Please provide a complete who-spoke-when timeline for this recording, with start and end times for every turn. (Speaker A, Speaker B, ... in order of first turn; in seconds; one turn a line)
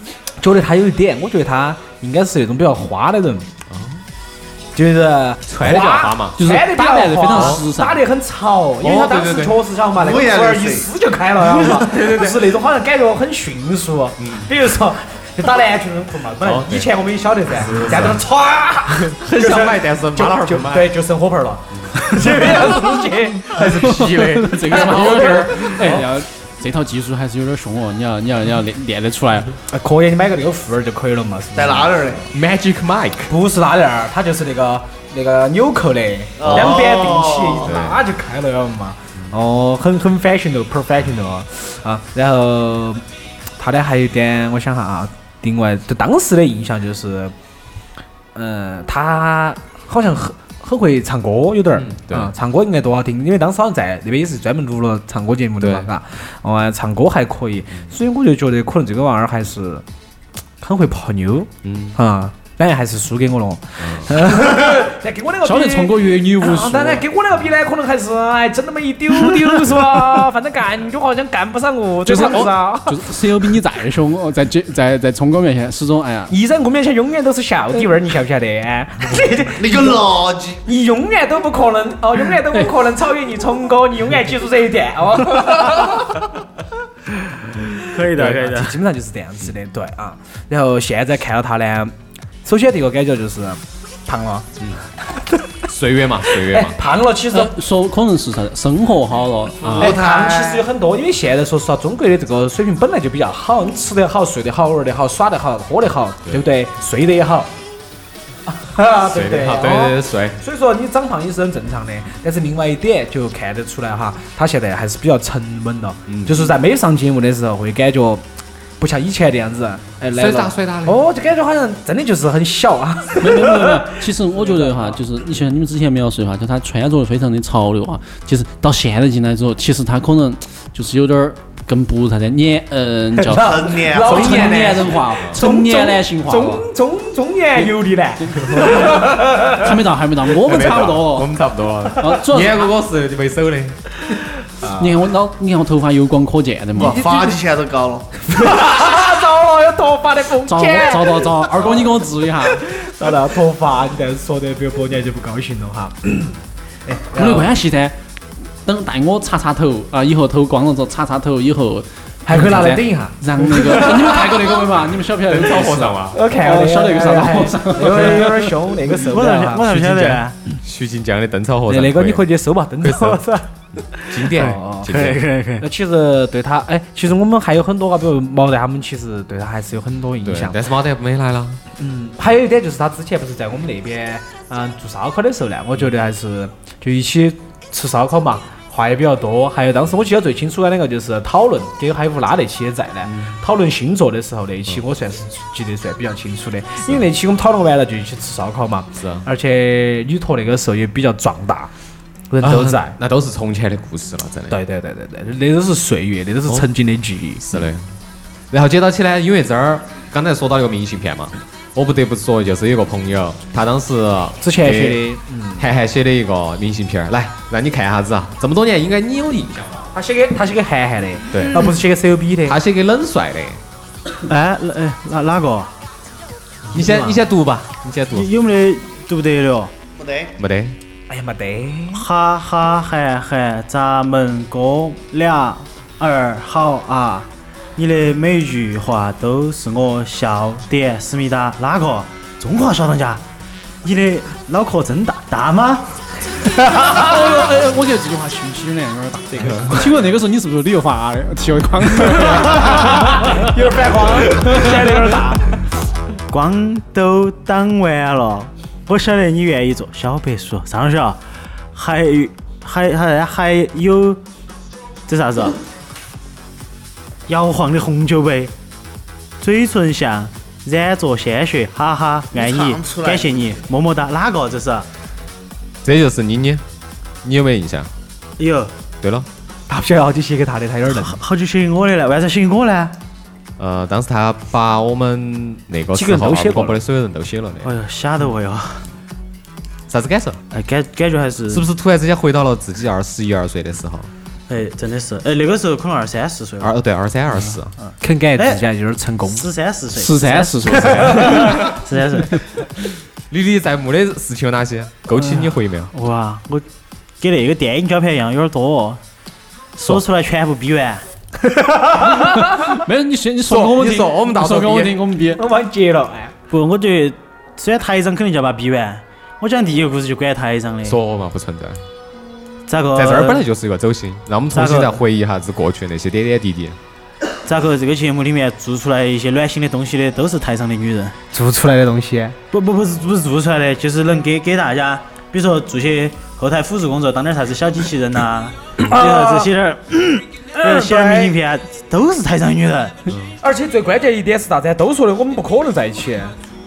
Speaker A: 0.4-3.5
Speaker B: 3.7-4.0
Speaker A: 4.7-24.1
Speaker B: 5.5-6.4
Speaker C: 6.4-8.0
Speaker B: 7.3-7.6
Speaker B: 8.8-9.6
Speaker D: 9.9-10.9
Speaker B: 11.5-12.5
Speaker B: 14.2-14.5
Speaker B: 16.4-16.9
Speaker B: 17.5-18.2
Speaker B: 18.9-20.9
Speaker B: 21.7-22.8
Speaker B: 23.4-26.0
Speaker C: 23.6-29.5
Speaker A: 24.7-26.2
Speaker A: 29.7-31.9
Speaker D: 31.5-32.2
Speaker B: 32.3-33.3
Speaker A: 33.3-43.0
Speaker D: 36.4-37.7
Speaker B: 36.4-36.7
Speaker B: 37.6-38.0
Speaker A: 43.6-47.3
Speaker A: 48.3-59.8
Speaker B: 51.7-52.3
Speaker B: 55.6-55.9
Speaker A: 60.6-73.1
Speaker B: 61.6-62.0
Speaker B: 63.8-64.2
Speaker C: 65.4-67.0
Speaker C: 72.0-76.3
Speaker A: 76.3-80.0
Speaker D: 79.5-80.6
Speaker A: 80.6-86.2
Speaker E: 87.7-88.8
Speaker A: 88.1-94.5
Speaker B: 95.6-96.8
Speaker A: 96.3-97.5
Speaker C: 97.3-99.7
Speaker B: 99.6-99.9
Speaker D: 99.6-100.6
Speaker A: 99.7-107.5
Speaker A: 108.5-118.2
Speaker B: 109.0-110.4
Speaker B: 116.1-116.5
Speaker A: 118.8-125.0
Speaker B: 120.1-121.0
Speaker C: 123.2-136.6
Speaker A: 133.2-139.7
Speaker D: 133.3-134.8
Speaker B: 135.1-135.4
Speaker C: 138.2-141.3
Speaker B: 140.4-143.8
Speaker C: 142.0-142.7
Speaker A: 144.6-145.0
Speaker C: 144.8-147.1
Speaker D: 146.7-148.1
Speaker A: 146.8-147.3
Speaker A: 148.3-151.9
Speaker C: 150.5-152.7
Speaker A: 152.5-156.3
Speaker A: 156.8-157.5
Speaker C: 157.1-157.9
Speaker C: 158.6-168.5
Speaker A: 162.2-164.1
Speaker B: 165.2-166.2
Speaker A: 166.1-170.2
Speaker E: 168.9-170.4
Speaker B: 170.6-173.2
Speaker A: 171.7-173.5
Speaker B: 173.9-175.2
Speaker E: 174.2-175.7
Speaker A: 174.4-174.9
Speaker A: 175.6-180.6
Speaker B: 180.2-181.6
Speaker A: 181.8-201.7
Speaker B: 193.0-193.3
Speaker B: 198.9-199.2
Speaker A: 202.3-202.9
Speaker B: 202.4-204.6
Speaker A: 204.5-207.6
Speaker B: 207.4-207.9
Speaker B: 208.5-219.8
Speaker A: 214.4-215.7
Speaker A: 219.9-222.6
Speaker B: 221.3-221.7
Speaker B: 222.4-223.6
Speaker E: 224.2-225.7
Speaker B: 226.7-228.3
Speaker A: 226.7-227.2
Speaker E: 228.1-229.7
Speaker D: 230.0-230.3
Speaker B: 230.4-230.8
Speaker A: 231.1-232.1
Speaker E: 231.9-243.2
Speaker E: 243.8-245.9
Speaker C: 246.5-253.4
Speaker A: 249.4-249.9
Speaker A: 252.2-255.6
Speaker C: 254.3-254.8
Speaker E: 256.3-261.2
Speaker E: 261.7-264.2
Speaker E: 265.1-265.6
Speaker E: 267.3-268.5
Speaker E: 269.4-274.9
Speaker D: 272.3-273.3
Speaker B: 275.8-276.6
Speaker B: 277.2-277.9
Speaker E: 278.4-278.7
Speaker B: 279.0-279.3
Speaker A: 279.7-281.2
Speaker E: 280.9-283.0
Speaker B: 283.6-287.7
Speaker A: 285.9-286.8
Speaker E: 287.6-288.8
Speaker B: 289.9-290.4
Speaker E: 290.5-291.6
Speaker B: 291.5-294.1
Speaker E: 294.5-296.7
Speaker B: 296.6-297.7
Speaker E: 297.8-298.6
Speaker A: 298.0-299.5
Speaker E: 299.3-302.4
Speaker C: 299.9-301.7
Speaker B: 300.6-301.8
Speaker B: 303.3-305.9
Speaker E: 305.9-306.6
Speaker E: 307.2-309.0
Speaker E: 309.8-311.0
Speaker A: 311.4-312.6
Speaker C: 312.1-315.4
Speaker B: 313.4-314.9
Speaker A: 315.4-316.3
Speaker E: 316.5-321.0
Speaker B: 320.8-321.8
Speaker E: 322.7-323.4
Speaker B: 322.9-326.8
Speaker E: 324.5-325.0
Speaker E: 327.4-331.1
Speaker A: 331.3-332.4
Speaker E: 332.5-343.0
Speaker A: 338.8-339.5
Speaker A: 340.5-341.3
Speaker A: 343.4-346.3